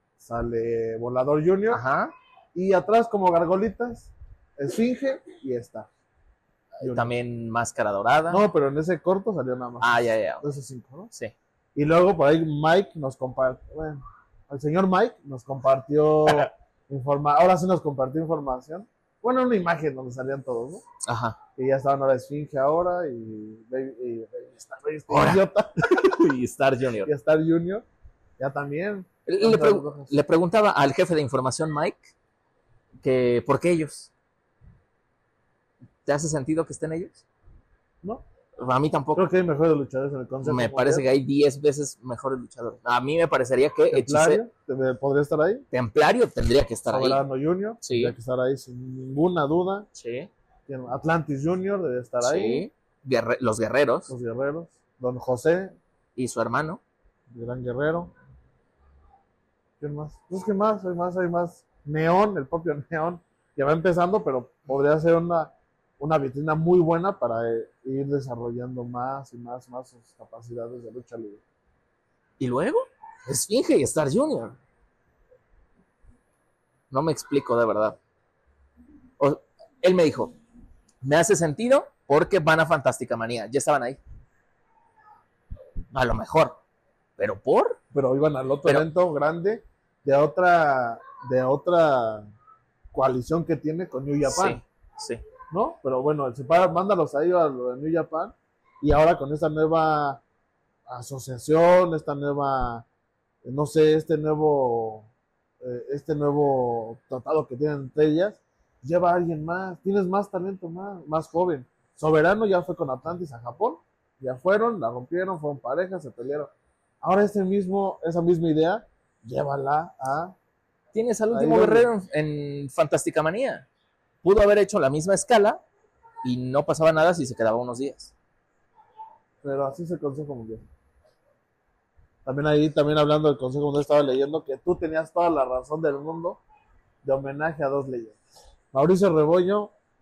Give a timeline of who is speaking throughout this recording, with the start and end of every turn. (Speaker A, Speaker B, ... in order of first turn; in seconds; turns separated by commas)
Speaker A: 0.2-1.8, Speaker B: 1.7-2.1, Speaker A: 2.5-5.9, Speaker A: 6.8-7.1, Speaker B: 6.8-8.4, Speaker A: 8.3-11.1, Speaker B: 9.8-10.4, Speaker A: 11.7-20.8, Speaker B: 21.0-21.4, Speaker A: 21.6-26.2, Speaker B: 25.1-27.1, Speaker A: 27.0-27.8, Speaker A: 28.4-30.1, Speaker B: 29.3-32.1, Speaker B: 33.0-34.1, Speaker B: 36.0-37.2, Speaker B: 38.6-39.3, Speaker A: 39.1-41.0, Speaker B: 40.4-44.4, Speaker A: 43.9-45.6, Speaker B: 45.7-47.2, Speaker A: 46.9-49.9, Speaker B: 47.8-48.1, Speaker B: 49.9-50.3, Speaker A: 50.7-52.6, Speaker B: 52.2-54.1, Speaker A: 54.1-55.7, Speaker B: 56.1-56.8, Speaker A: 57.3-58.1, Speaker A: 59.8-71.4, Speaker B: 72.4-74.6, Speaker B: 76.9-78.0, Speaker B: 79.2-80.3, Speaker B: 81.0-84.0, Speaker B: 85.9-86.6, Speaker B: 87.2-87.8, Speaker A: 87.9-92.3, Speaker A: 92.9-94.6, Speaker B: 94.2-95.2, Speaker A: 95.5-100.2, Speaker A: 100.9-102.8, Speaker A: 103.4-105.1, Speaker A: 105.6-116.5, Speaker A: 117.0-120.3, Speaker B: 120.9-123.7, Speaker A: 121.3-121.9, Speaker B: 124.2-125.6, Speaker B: 126.2-128.1, Speaker A: 129.4-130.6, Speaker A: 132.2-136.4, Speaker A: 137.0-138.2, Speaker A: 138.7-139.7